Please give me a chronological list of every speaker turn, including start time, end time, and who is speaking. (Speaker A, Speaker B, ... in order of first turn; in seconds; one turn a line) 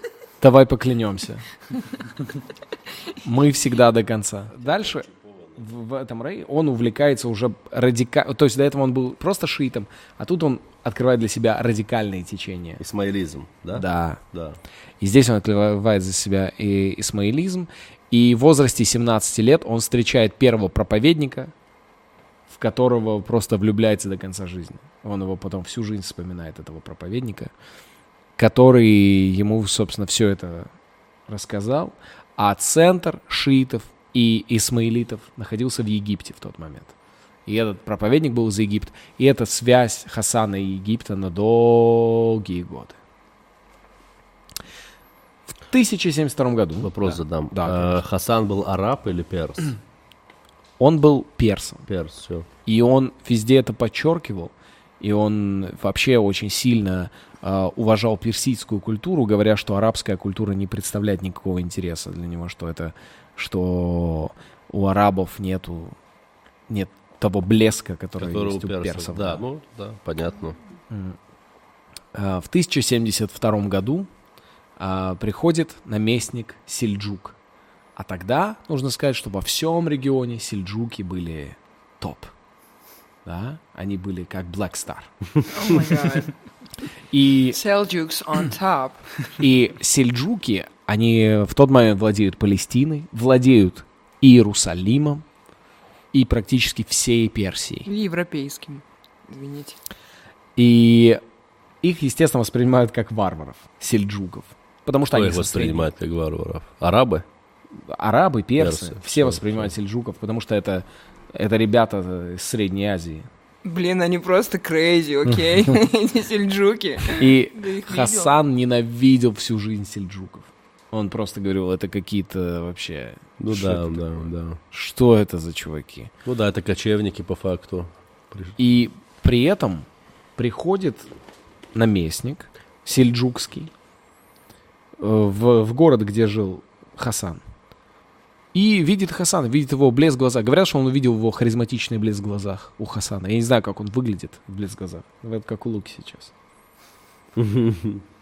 Speaker A: 0.4-1.4
Speaker A: 3.2-12.8
Speaker B: 12.8-14.6
Speaker A: 13.7-14.2
Speaker A: 15.0-21.5
Speaker A: 22.5-27.5
Speaker A: 28.4-30.7
Speaker A: 31.3-36.9
Speaker A: 37.5-43.0
Speaker A: 45.7-48.0
Speaker B: 46.8-49.8
Speaker A: 50.8-51.9
Speaker B: 51.9-52.5
Speaker A: 52.6-66.0
Speaker A: 66.7-69.4
Speaker B: 68.2-70.6
Speaker A: 70.9-71.2
Speaker A: 72.1-74.1
Speaker A: 74.8-77.3
Speaker A: 78.0-82.3
Speaker A: 83.2-85.1
Speaker C: 85.5-86.3
Speaker A: 87.1-87.6
Speaker C: 87.5-89.0
Speaker A: 89.4-95.2
Speaker A: 96.1-97.9
Speaker C: 97.8-99.8
Speaker A: 100.5-101.2
Speaker A: 101.8-105.9
Speaker B: 105.1-107.2
Speaker A: 107.9-113.3
Speaker B: 108.6-109.7
Speaker C: 113.6-118.3
Speaker A: 115.3-115.7
Speaker A: 117.2-126.1
Speaker B: 123.4-124.6
Speaker B: 126.2-128.6
Speaker A: 128.6-129.8
Speaker A: 130.4-131.1
Speaker A: 131.7-133.7
Speaker A: 135.0-137.4
Speaker A: 138.5-146.3
Speaker B: 147.3-148.0